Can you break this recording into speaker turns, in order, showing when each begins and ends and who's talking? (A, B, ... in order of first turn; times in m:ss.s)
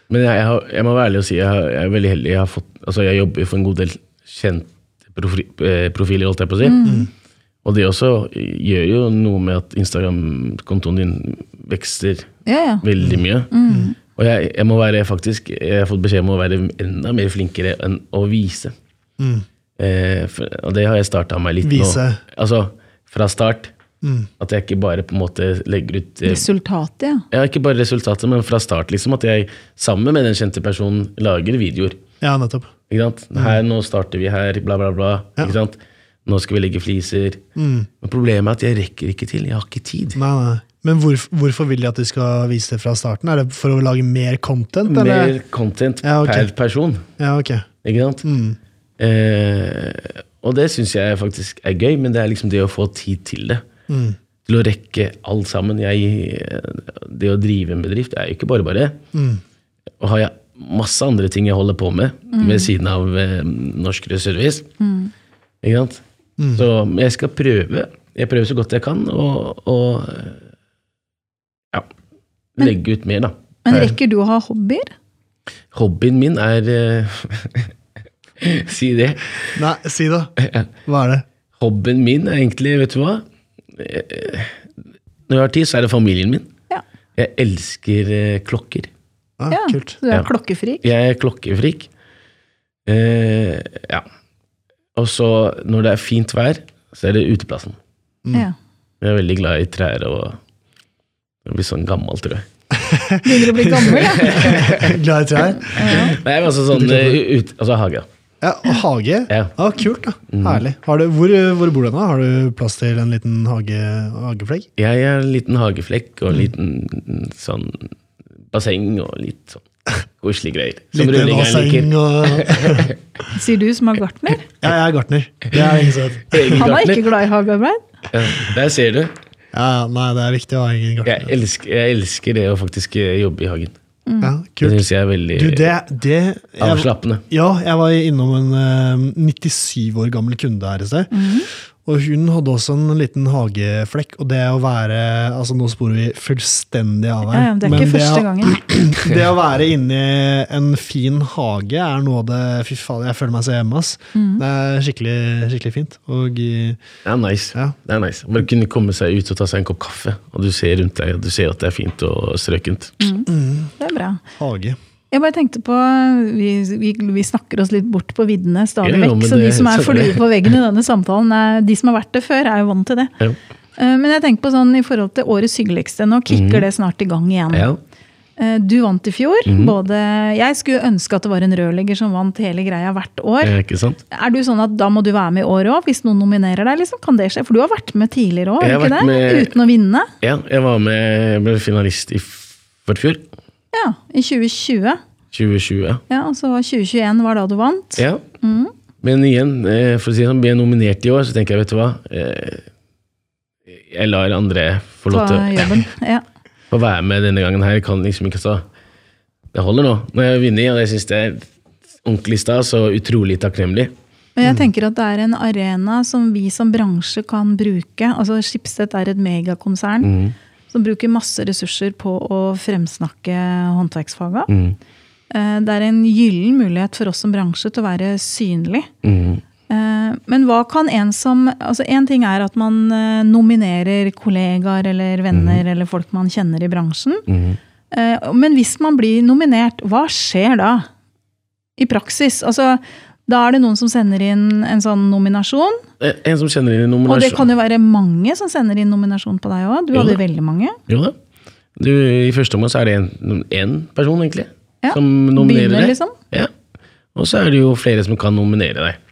0:00.1-0:06.8 A
0:06.6-0:07.1 B
0:06.8-0:07.1 C
0:07.6-0:12.3 A
0:12.4-0:12.9 B
0:12.8-0:13.5 A
0:13.0-0:13.9 C
0:13.5-0:14.0 B
0:14.1-0:18.7 A
0:19.2-0:19.4 C
0:19.8-0:23.7 A
0:21.6-0:22.2 C
0:24.0-0:24.3 C
0:24.4-0:26.5 A
0:26.2-0:27.2 B
0:27.3-0:32.0 A
0:32.2-0:32.7 C
0:32.9-0:37.4 A
0:37.6-0:37.9 C
0:38.0-0:40.2 A
0:40.2-0:45.3 C
0:44.8-0:47.0 A
0:46.0-0:46.5 C
0:47.2-0:47.7 C
0:47.8-0:48.2 A
0:48.2-0:48.6 C
0:49.0-0:53.6 A
0:53.9-0:54.2 C
0:54.4-0:59.0 A
0:59.1-0:59.4 C
1:00.0-1:04.7 A
1:02.3-1:02.7 B
1:04.8-1:05.1 B
1:05.6-1:06.0 A
1:06.4-1:06.6 C
1:06.5-1:10.4 A
1:12.6-1:13.9 A
1:13.6-1:14.9 B
1:15.7-1:17.7 A
1:18.4-1:19.6 A
1:19.5-1:20.3 C
1:20.4-1:20.7 A
1:20.8-1:21.2 C
1:21.6-1:24.6 A
1:25.3-1:26.5 A
1:27.2-1:28.9 A
1:29.4-1:30.0 C
1:29.5-1:30.8 B
1:30.8-1:31.9 A
1:32.8-1:34.0 A
1:34.9-1:37.8 A
1:39.0-1:40.4 A
1:41.4-1:42.4 A
1:42.7-1:46.2 C
1:43.2-1:44.6 B
1:44.1-1:45.0 A
1:45.6-1:46.2 B
1:45.8-1:48.0 A
1:46.7-1:47.2 C
1:48.4-1:54.7 C
1:50.3-1:50.6 A
1:54.8-1:57.9 A
1:58.5-1:59.6 A
2:00.2-2:03.0 A
2:00.9-2:02.9 C
2:03.3-2:04.5 B
2:04.6-2:06.7 C
2:06.3-2:07.0 A
2:06.5-2:07.8 B
2:08.1-2:09.1 A
2:09.5-2:11.3 C
2:11.0-2:13.7 A
2:14.0-2:14.3 B
2:14.2-2:21.1 C
2:14.6-2:15.7 A
2:16.6-2:17.2 A
2:21.1-2:21.5 B
2:21.8-2:36.8 C
2:27.3-2:28.8 B
2:34.1-2:34.4 B
2:37.0-2:43.1 A
2:43.0-2:44.2 B
2:43.3-2:43.7 C
2:44.4-2:44.8 C
2:45.1-2:53.1 B
2:48.8-2:50.5 A
2:53.8-2:57.7 B
2:56.3-2:56.7 A
2:57.5-2:57.8 A
2:58.4-3:03.6 B
2:59.4-2:59.8 A
3:03.4-3:04.0 A
3:04.1-3:10.1 B
3:08.6-3:09.5 A
3:10.2-3:13.2 A
3:13.7-3:15.0 B
3:15.3-3:16.0 A
3:16.1-3:18.7 B
3:18.0-3:18.2 A
3:19.0-3:22.6 A
3:23.7-3:25.8 A
3:25.1-3:26.2 B
3:26.7-3:28.6 A
3:29.5-3:31.5 A
3:32.0-3:33.9 A
3:34.4-3:40.1 B
3:40.0-3:40.4 A
3:40.7-3:44.5 B
3:44.5-3:44.8 A
3:45.3-3:48.9 B
3:49.0-3:49.4 A
3:49.7-3:57.2 B
3:55.3-3:55.6 A
3:57.3-3:57.6 A
3:57.9-4:00.9 B
4:01.8-4:05.8 B
4:06.0-4:07.4 A
4:07.0-4:10.8 B
4:09.9-4:10.2 A
4:10.9-4:11.2 A
4:11.8-4:16.5 A
4:14.8-4:16.1 B
4:17.1-4:19.0 A